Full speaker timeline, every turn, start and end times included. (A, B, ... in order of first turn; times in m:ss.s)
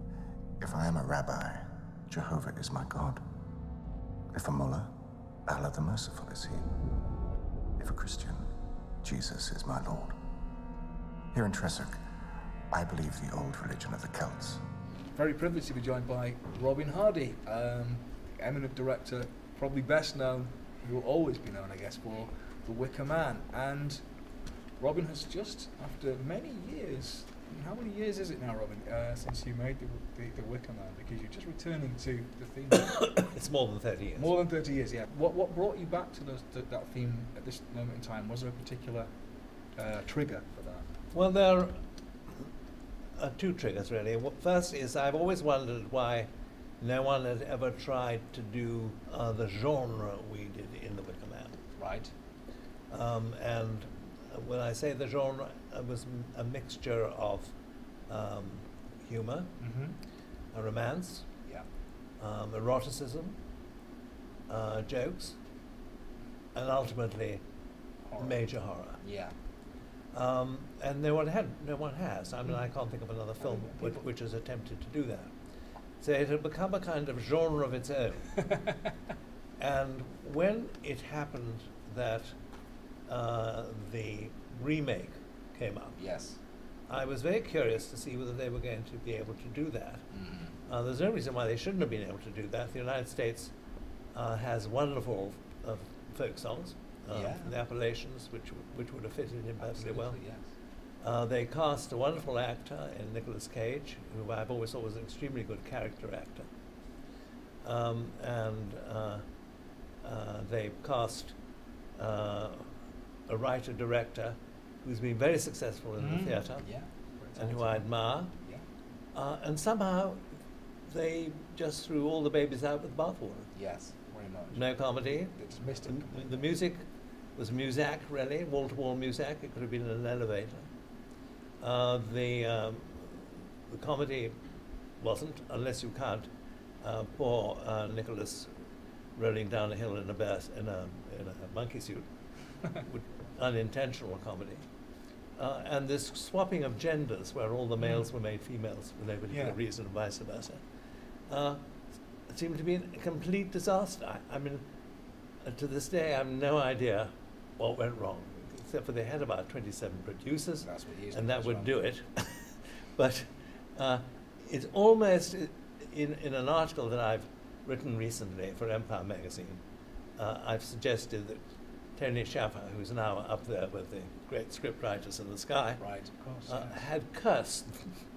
0:00.6-0:03.2 A
0:04.3-0:04.9 A
0:05.5-0:06.7 A
0:07.8-0:08.5 A
0:09.0-0:10.2 A
0:11.3-0:12.0 A
0:12.7-0:14.6 A
0:15.2-0:24.0 B
0:24.8-0:33.2 B
0:32.7-0:34.4 C
0:34.2-0:39.1 B
0:39.8-0:40.9 B
0:41.1-0:41.8 C
0:43.2-0:46.3 C
0:46.8-0:51.6 C
0:51.8-0:52.1 B
0:52.9-0:57.5 C
0:58.1-0:59.5 C
0:59.6-1:00.0 B
1:00.5-1:01.3 C
1:02.2-1:03.4 C
1:04.5-1:05.4 C
1:06.6-1:07.4 C
1:08.1-1:08.4 B
1:08.2-1:09.0 C
1:09.0-1:09.3 B
1:10.1-1:15.3 C
1:13.4-1:14.0 B
1:16.0-1:18.4 C
1:18.5-1:18.8 B
1:19.6-1:22.3 C
1:23.1-1:26.0 C
1:26.0-1:26.4 B
1:26.9-1:30.0 C
1:30.1-1:30.6 B
1:30.7-1:33.5 C
1:34.1-1:40.2 C
1:37.1-1:37.6 B
1:39.6-1:40.5 B
1:41.0-1:46.5 C
1:47.6-1:49.2 C
1:50.0-1:51.4 C
1:52.0-1:56.7 C
1:56.0-1:58.6 B
1:57.4-1:58.3 C
1:59.1-2:00.3 C
2:00.9-2:03.5 C
2:03.6-2:06.5 B
2:04.5-2:06.8 C
2:07.4-2:10.6 C
2:11.6-2:14.4 C
2:15.0-2:16.3 C
2:16.8-2:18.5 C
2:19.2-2:22.1 C
2:22.7-2:24.6 C
2:25.4-2:30.6 C
2:27.8-2:28.1 B
2:29.3-2:29.6 B
2:31.3-2:31.7 C
2:32.3-2:34.6 C
2:35.4-2:49.6 C
2:40.6-2:41.8 B
2:50.2-2:51.4 C
2:52.0-2:55.8 C
2:55.8-2:56.8 B
2:56.5-2:58.0 C